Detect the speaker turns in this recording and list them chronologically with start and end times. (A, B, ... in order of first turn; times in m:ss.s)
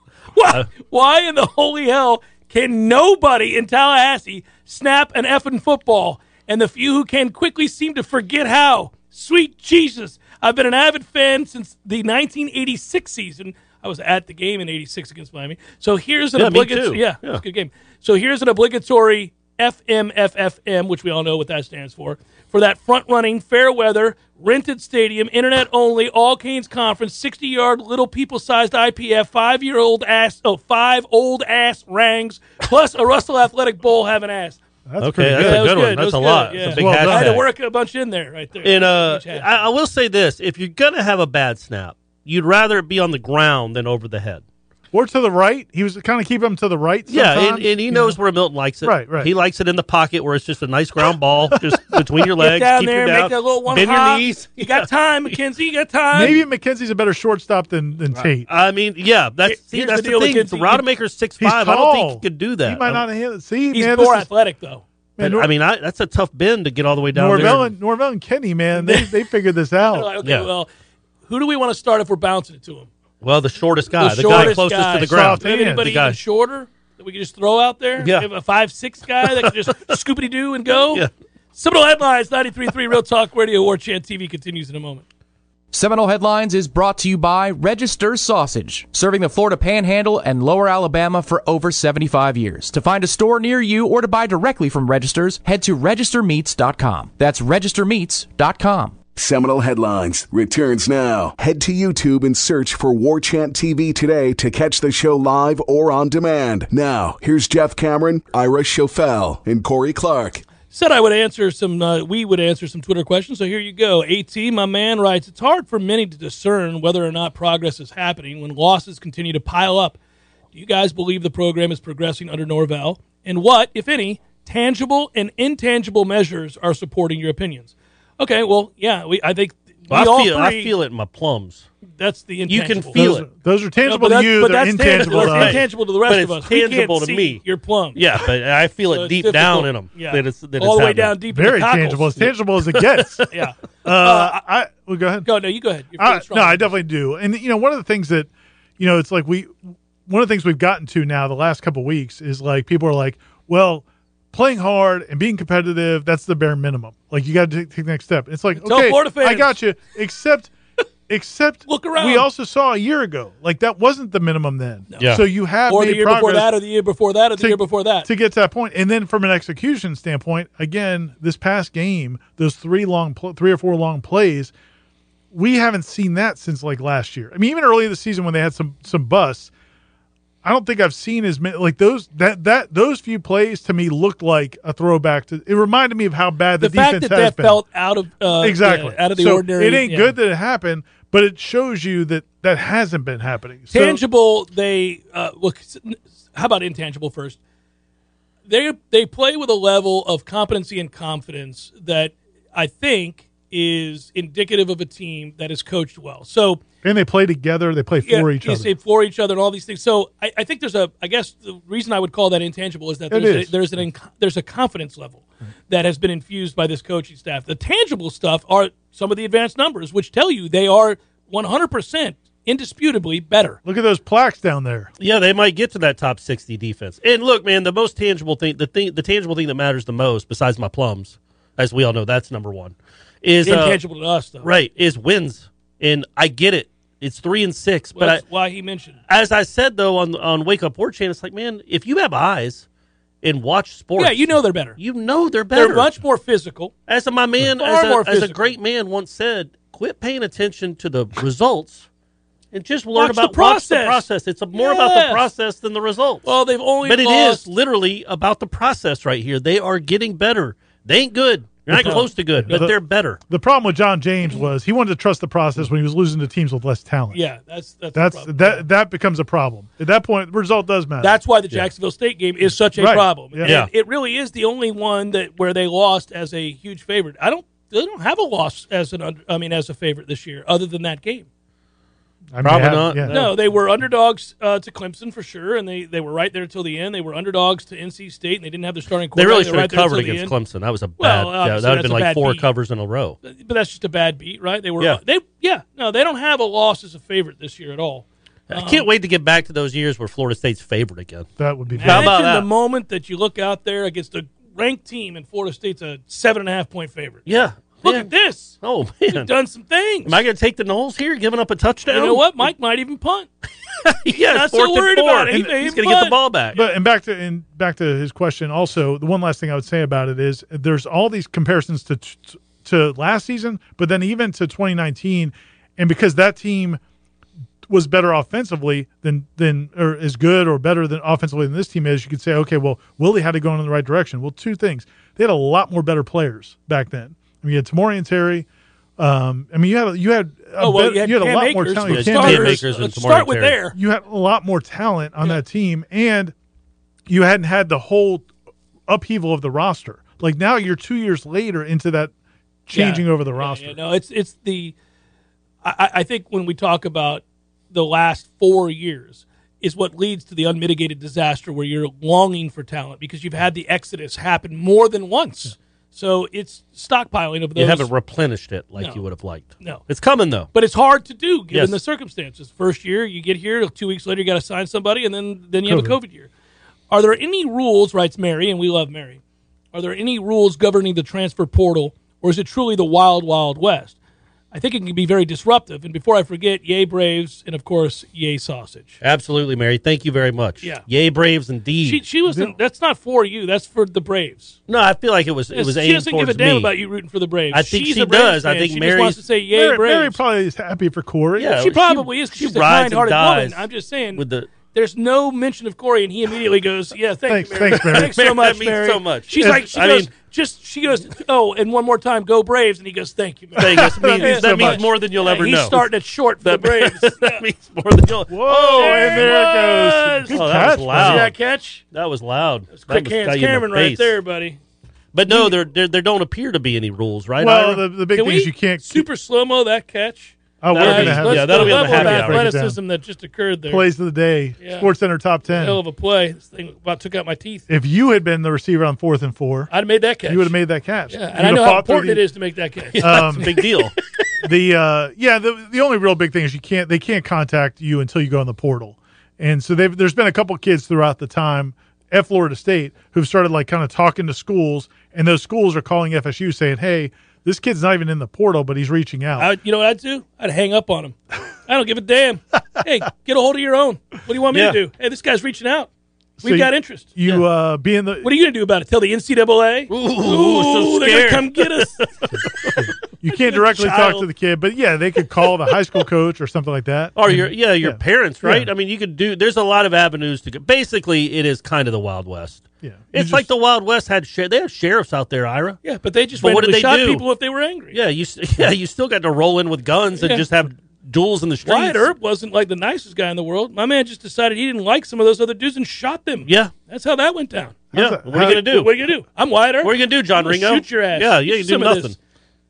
0:00.4-0:34.6 A
0:16.4-0:17.4 B
0:34.9-0:35.8 C
0:35.0-0:37.5 B
0:35.3-0:39.5 A
0:36.7-0:37.4 C
0:38.6-0:44.4 B
0:44.9-0:48.2 C
0:47.1-0:55.4 B
0:48.8-0:49.3 C
0:52.4-0:56.4 A
0:56.1-0:58.5 C
0:58.4-1:03.0 B
0:59.4-1:00.8 A
1:01.4-1:04.3 C
1:03.7-1:04.8 A
1:05.2-1:05.5 C
1:05.2-1:07.7 B
1:07.1-1:10.1 C
1:08.8-1:09.1 A
1:09.9-1:10.7 A
1:10.2-1:10.5 B
1:11.3-1:12.9 A
1:13.2-1:16.2 B
1:14.0-1:25.0 A
1:14.3-1:15.9 C
1:18.0-1:18.3 B
1:19.2-1:19.9 B
1:25.7-1:39.0 D
1:39.2-1:50.5 E
1:50.7-2:00.0 A
2:00.5-2:10.7 A
2:09.9-2:11.7 B
2:11.9-2:13.0 A
2:12.5-2:13.3 B
2:13.0-2:15.6 C
2:13.8-2:18.0 A
2:15.0-2:17.4 B
2:18.0-2:21.2 B
2:18.9-2:22.3 A
2:21.3-2:23.3 C
2:22.8-2:23.2 B
2:23.3-2:24.4 A
2:23.8-2:25.3 C
2:25.2-2:26.7 A
2:26.0-2:40.6 C
2:38.6-2:39.5 A
2:41.1-2:46.5 C
2:41.7-2:42.3 A
2:44.9-2:48.1 A
2:47.4-2:54.5 C
2:55.3-2:59.5 C
3:00.4-3:07.6 C
3:06.6-3:10.1 A
3:08.3-3:14.0 C
3:13.7-3:17.4 A
3:18.5-3:26.6 A
3:26.8-3:28.7 C
3:28.0-3:43.6 A
3:33.1-3:33.5 C
3:43.6-3:44.9 C
3:45.0-3:53.8 B
3:53.4-3:54.5 A
3:54.4-3:58.2 B
3:58.0-3:59.0 A
3:59.1-4:02.7 B
4:03.2-4:05.9 B
4:04.0-4:04.8 A
4:05.5-4:06.7 A
4:06.9-4:11.9 B
4:07.5-4:08.5 A
4:12.5-4:23.2 B
4:13.0-4:15.2 A
4:16.2-4:17.4 A
4:21.7-4:22.7 A
4:21.7-4:27.2 C
4:27.1-4:28.6 A
4:27.9-4:31.2 C
4:31.0-4:41.3 A
4:32.8-4:33.6 C
4:33.4-4:33.7 B
4:42.3-4:43.3 C
4:42.4-4:43.3 B
4:43.1-4:50.4 A
4:49.2-4:53.2 B
4:51.0-4:52.5 A
4:53.2-4:58.9 A
4:58.5-5:01.3 B
5:01.4-5:02.1 C
5:01.7-5:07.3 A
5:01.8-5:02.5 B
5:07.3-5:09.3 B
5:07.8-5:10.2 A
5:10.0-5:12.5 B
5:11.9-5:13.3 A
5:13.8-5:16.6 B
5:14.2-5:16.7 A
5:16.6-5:26.8 C
5:27.7-5:38.5 C
5:39.0-5:42.7 C
5:40.6-5:43.8 A
5:41.9-5:43.6 B
5:43.8-5:46.3 C
5:47.1-5:48.3 C
5:48.9-5:52.1 C
5:52.7-5:53.8 C
5:52.7-5:54.8 A
5:55.6-6:07.9 A
6:07.6-6:10.5 B
6:08.8-6:09.0 A
6:10.5-6:16.3 A
6:11.5-6:11.8 B
6:15.7-6:16.0 C
6:16.9-6:19.2 A
6:19.7-6:24.0 A
6:24.5-6:29.0 A
6:29.0-6:32.0 B
6:31.8-6:34.6 A
6:32.3-6:32.5 C
6:34.7-6:36.7 B
6:35.5-6:40.2 A
6:37.5-6:39.2 B
6:39.5-6:41.7 C
6:41.4-6:44.6 B
6:41.6-6:57.4 A
6:47.3-6:48.2 C
6:47.8-6:50.1 B
6:53.6-6:54.8 C
6:53.6-6:55.9 B
6:56.4-7:01.4 B
6:58.3-7:01.3 C
6:58.7-7:01.8 A
7:01.9-7:04.2 B
7:02.7-7:04.6 A
7:05.1-7:07.8 B
7:07.4-7:09.1 C
7:08.1-7:13.9 A
7:10.6-7:12.8 C
7:10.7-7:12.5 B
7:13.7-7:15.8 C
7:14.6-7:14.9 A
7:15.5-7:17.7 A
7:17.7-7:19.7 C
7:19.7-7:20.5 A
7:20.2-7:22.2 C
7:21.1-7:23.6 A
7:23.0-7:23.9 B
7:23.0-7:23.5 C
7:24.4-7:39.5 C
7:39.4-7:45.9 A
7:44.5-7:44.8 B
7:46.4-7:47.2 A
7:46.4-7:48.3 C
7:48.2-7:52.0 A
7:49.9-7:52.9 B
7:52.8-7:58.7 C
7:53.4-7:54.3 A
7:57.2-8:05.8 B
8:02.8-8:03.5 C
8:05.8-8:08.0 A
8:06.4-8:07.2 B
8:07.9-8:12.1 B
8:10.2-8:10.4 A
8:11.6-8:17.9 A
8:16.5-8:16.7 B
8:17.9-8:18.7 C
8:17.9-8:18.9 B
8:18.4-8:22.2 A
8:19.8-8:22.2 B